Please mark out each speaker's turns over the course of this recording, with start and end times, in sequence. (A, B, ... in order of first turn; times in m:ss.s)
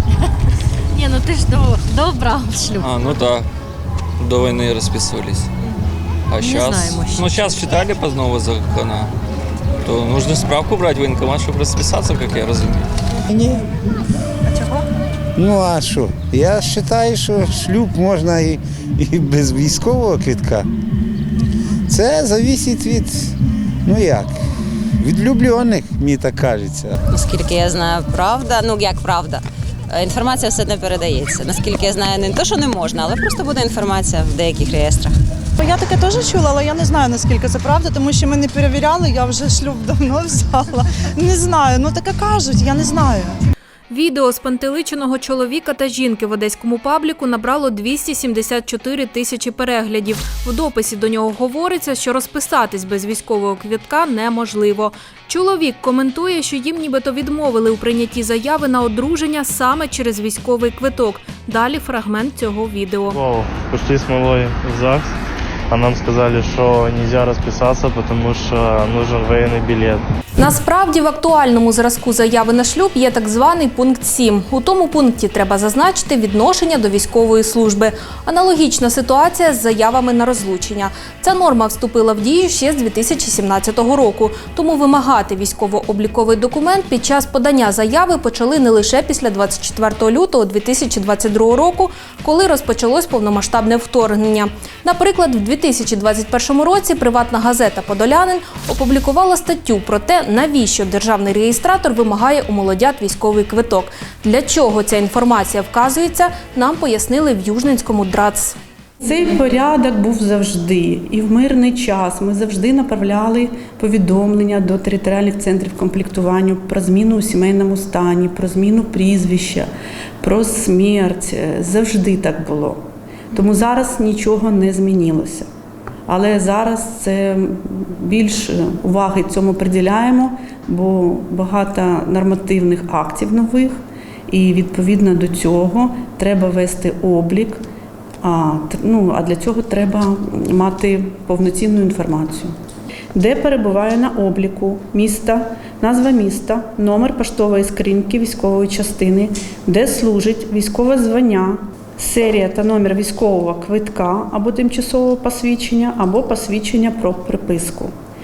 0:01.0-0:02.9 A
0:02.8-0:03.5 B
0:04.2-0:05.5 B
0:06.3-0:09.1 B
0:06.4-0:07.5 A
0:09.8-0:12.9 B
0:13.3-0:13.7 C
0:14.5-0:14.8 D
0:15.4-0:20.7 C
0:21.9-0:23.3 C
0:23.8-0:24.4 C
0:25.0-0:27.0 C
0:27.1-0:35.1 E
0:35.6-0:43.4 D
0:43.9-1:03.2 F
1:03.1-1:05.1 G
1:05.7-1:10.0 G
1:10.4-1:48.6 F
1:49.0-1:59.7 H
2:00.2-2:02.8 H
2:03.3-2:05.5 H
2:06.1-2:17.6 H
2:18.2-2:22.6 H
2:23.1-2:37.9 H